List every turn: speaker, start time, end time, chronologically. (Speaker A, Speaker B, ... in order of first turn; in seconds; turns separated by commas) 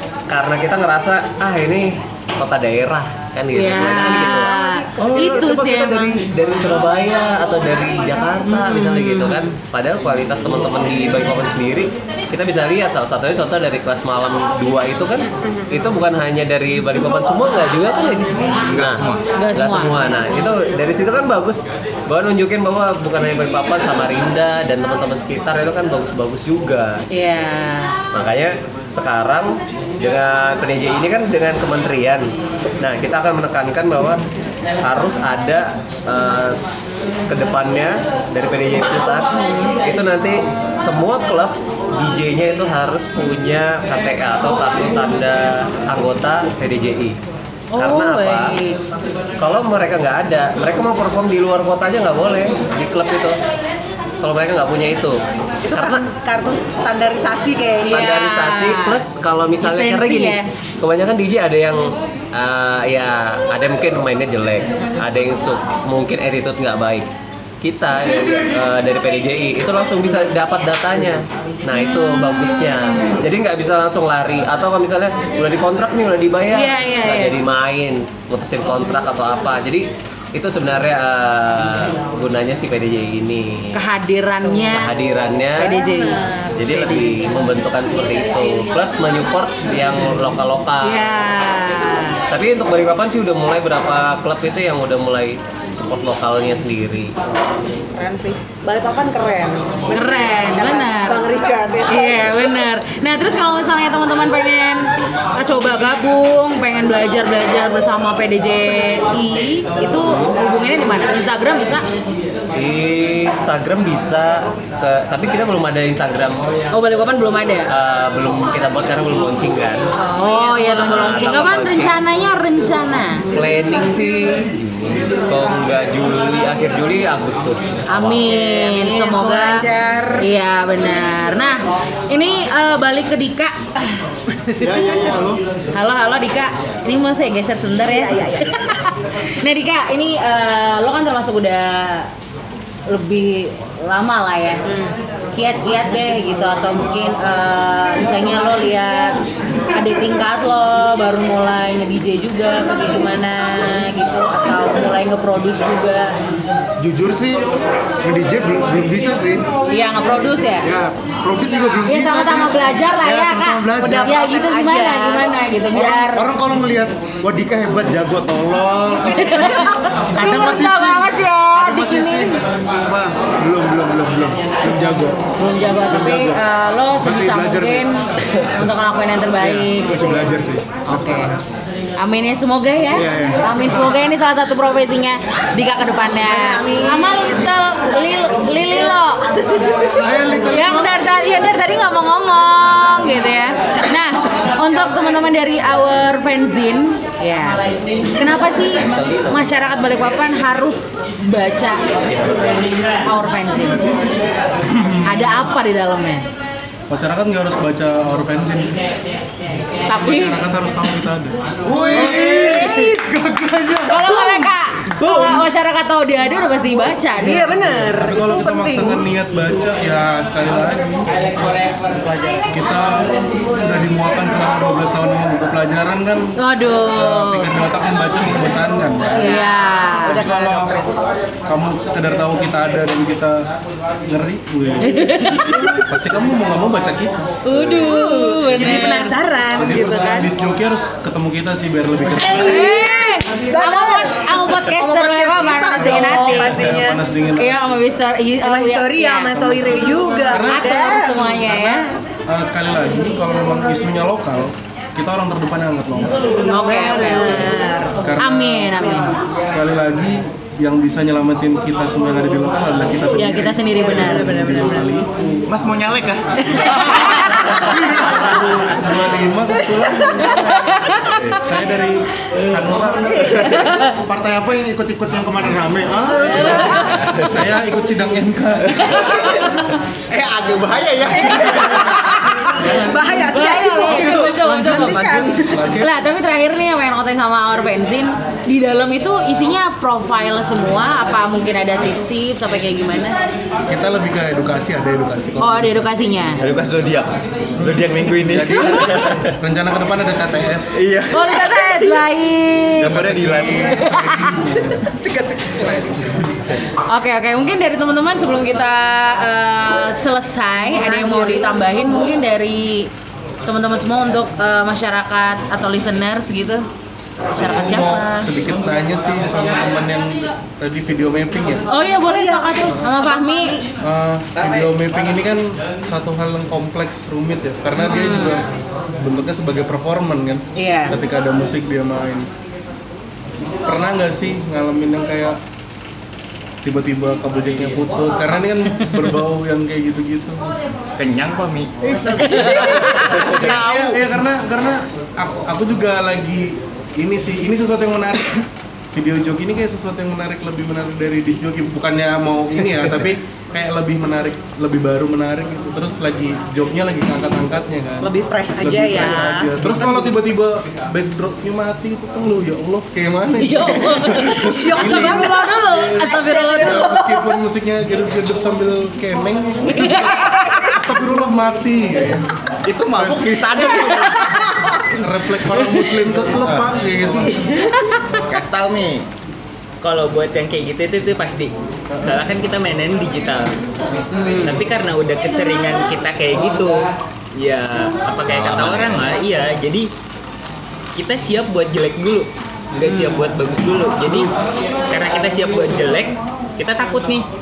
Speaker A: 0.3-27.0, Speaker B: 3.5-6.2, Speaker C: 3.8-5.7, Speaker B: 8.5-9.5, Speaker C: 15.5-15.7, Speaker D: 18.5-19.2, Speaker B: 19.4-20.0, Speaker B: 27.1-28.0, Speaker A: 28.1-34.2, Speaker A: 34.8-36.6, Speaker A: 37.3-39.3, Speaker C: 39.4-39.7, Speaker A: 39.8-47.2, Speaker B: 47.7-48.8, Speaker A: 47.8-48.6, Speaker A: 49.4-53.4, Speaker A: 54.2-55.2, Speaker C: 55.6-58.0, Speaker A: 55.7-56.0, Speaker B: 57.8-59.0, Speaker A: 57.8-67.1, Speaker B: 59.6-60.5, Speaker A: 67.6-83.8, Speaker B: 71.8-73.2, Speaker B: 76.5-77.4, Speaker B: 83.7-84.9, Speaker A: 84.7-85.8, Speaker B: 85.6-87.1, Speaker C: 85.6-86.7, Speaker A: 86.5-91.1, Speaker C: 88.0-88.7, Speaker B: 90.8-92.2, Speaker A: 92.3-97.2, Speaker C: 98.0-102.5, Speaker B: 99.9-101.2, Speaker B: 101.9-111.8, Speaker A: 110.0-110.3, Speaker A: 112.5-116.5, Speaker B: 116.7-117.7, Speaker A: 117.7-119.9, Speaker C: 120.0-121.3, Speaker B: 120.2-123.2, Speaker A: 120.6-122.0, Speaker A: 123.3-128.2, Speaker B: 127.9-129.7, Speaker C: 128.2-130.3, Speaker B: 130.2-133.8, Speaker E: 134.6-135.4, Speaker B: 135.8-138.9, Speaker C: 137.8-138.7, Speaker B: 139.4-142.1, Speaker B: 142.9-144.6, Speaker C: 144.7-145.0, Speaker B: 145.3-149.2, Speaker B: 149.7-156.1, Speaker E: 156.8-157.4, Speaker E: 158.0-159.5, Speaker B: 159.7-160.7, Speaker E: 160.6-164.2, Speaker B: 161.9-166.3, Speaker C: 163.8-165.3, Speaker E: 165.7-175.2, Speaker B: 169.1-172.4, Speaker B: 175.4-180.3, Speaker E: 175.9-176.4, Speaker E: 177.0-177.9, Speaker E: 179.4-181.4, Speaker B: 180.9-181.3, Speaker B: 182.0-189.2, Speaker E: 182.9-183.4, Speaker C: 186.3-187.5, Speaker C: 188.7-189.7, Speaker E: 190.0-190.9, Speaker B: 190.5-197.6, Speaker B: 198.2-201.8, Speaker A: 198.8-199.5, Speaker A: 202.1-202.7, Speaker B: 203.1-203.8, Speaker F: 204.7-205.1, Speaker B: 205.0-206.2, Speaker F: 206.9-208.8, Speaker B: 209.9-210.4, Speaker F: 209.9-213.7, Speaker E: 211.8-212.7, Speaker C: 211.8-213.1, Speaker B: 212.0-212.7, Speaker C: 213.9-215.4, Speaker B: 213.9-217.5, Speaker C: 217.2-219.1, Speaker F: 217.9-221.1, Speaker F: 222.5-229.2, Speaker B: 226.4-227.5, Speaker C: 229.1-230.9, Speaker B: 229.2-230.2, Speaker F: 230.1-230.8, Speaker F: 231.5-233.5, Speaker F: 234.1-235.0, Speaker B: 234.8-235.8, Speaker C: 235.3-235.7, Speaker F: 235.9-237.8, Speaker B: 237.4-239.1, Speaker C: 237.8-240.3, Speaker F: 238.6-238.9, Speaker F: 239.5-242.7, Speaker C: 242.2-247.0, Speaker B: 242.4-246.7, Speaker F: 245.8-247.6, Speaker B: 247.4-249.8, Speaker C: 248.4-251.3, Speaker F: 249.4-256.2, Speaker B: 250.5-251.9, Speaker C: 256.5-258.0, Speaker B: 256.5-257.5, Speaker F: 257.2-265.4, Speaker B: 258.2-259.2, Speaker C: 258.8-259.1, Speaker B: 263.1-264.3, Speaker C: 263.7-265.1, Speaker D: 265.5-266.2, Speaker B: 266.4-267.5, Speaker E: 266.6-267.5, Speaker F: 267.5-273.4, Speaker C: 269.6-270.3, Speaker B: 270.7-271.1, Speaker E: 272.7-276.8, Speaker C: 273.3-273.8, Speaker B: 273.5-274.0, Speaker C: 276.1-277.0, Speaker B: 276.3-277.1, Speaker F: 277.1-279.4, Speaker D: 280.1-282.0, Speaker C: 281.1-282.1, Speaker C: 282.7-285.4, Speaker E: 283.0-285.9, Speaker B: 283.1-293.2, Speaker F: 285.5-285.9, Speaker F: 293.7-295.8, Speaker B: 295.4-296.4, Speaker D: 296.4-299.2, Speaker F: 297.6-300.8, Speaker D: 300.8-301.4, Speaker B: 301.1-302.9, Speaker C: 301.2-301.8, Speaker D: 302.8-303.8, Speaker F: 302.8-306.6, Speaker B: 303.7-304.4, Speaker B: 306.9-312.9, Speaker C: 310.7-311.6, Speaker B: 313.5-316.6, Speaker F: 317.3-321.6, Speaker B: 317.3-318.3, Speaker B: 321.7-323.6, Speaker C: 321.8-323.6, Speaker F: 323.8-328.5, Speaker B: 327.8-328.4, Speaker F: 329.0-332.3, Speaker B: 330.6-331.0, Speaker F: 333.7-335.4, Speaker F: 336.6-340.7, Speaker D: 341.0-344.0, Speaker F: 342.1-372.3, Speaker B: 342.2-343.1, Speaker C: 358.0-360.2, Speaker B: 363.4-366.9, Speaker C: 364.2-367.4, Speaker C: 369.7-370.7, Speaker B: 369.8-370.6, Speaker D: 372.6-374.4, Speaker F: 372.9-377.6, Speaker C: 373.6-374.7, Speaker B: 377.6-377.9, Speaker D: 378.3-379.1, Speaker G: 379.8-383.5, Speaker B: 384.1-384.6, Speaker G: 384.4-389.9, Speaker A: 388.3-389.1, Speaker G: 391.0-394.3, Speaker B: 392.9-393.2, Speaker G: 394.9-397.2